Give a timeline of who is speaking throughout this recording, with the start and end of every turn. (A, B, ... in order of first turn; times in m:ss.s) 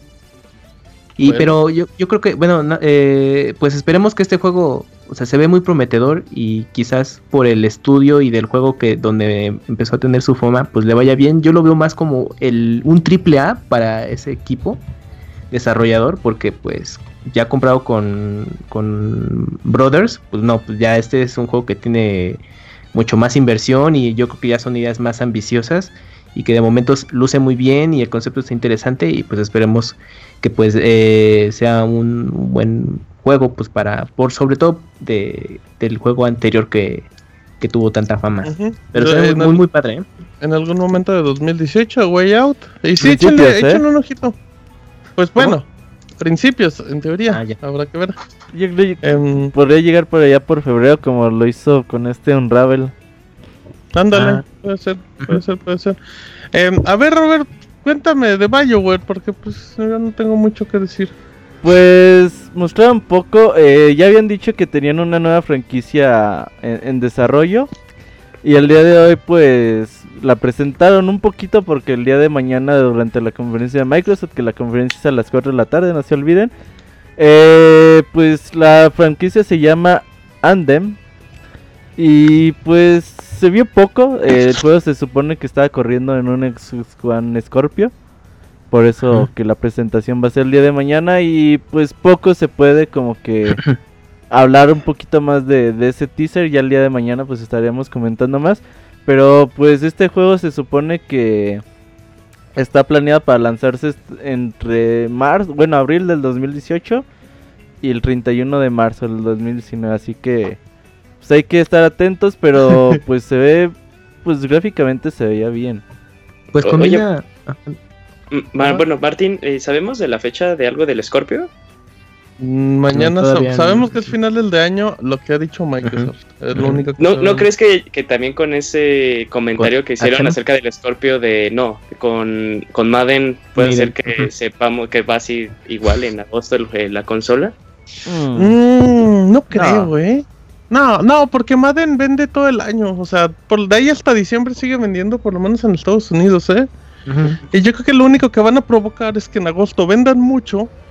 0:01.2-0:14.8 A
0:01.2-0:01.5 B
0:15.5-0:37.1 A
0:37.6-0:40.1 A
0:38.4-0:39.6 B
0:40.4-0:44.4 B
0:43.0-0:43.8 C
0:45.2-0:45.7 B
0:46.2-0:48.2 B
0:47.3-0:47.6 A
0:48.5-0:52.9 C
0:49.0-0:49.5 B
0:53.9-0:56.0 B
0:54.1-0:54.4 A
0:56.5-1:01.1 B
1:01.6-1:07.7 C
1:08.4-1:16.5 C
1:17.2-1:21.0 C
1:22.0-1:27.9 C
1:28.7-1:33.6 C
1:34.3-1:41.6 C
1:42.6-1:47.0 C
1:47.8-1:50.6 C
1:51.2-1:55.8 C
1:56.5-1:57.8 A
1:56.6-1:57.0 D
1:58.3-2:01.5 D
2:02.4-2:07.5 B
2:02.9-2:04.1 A
2:05.8-2:06.8 A
2:07.0-2:17.6 D
2:09.6-2:10.4 A
2:13.6-2:14.3 A
2:18.1-2:18.6 C
2:18.4-2:26.7 B
2:27.1-2:27.4 A
2:27.5-2:30.7 B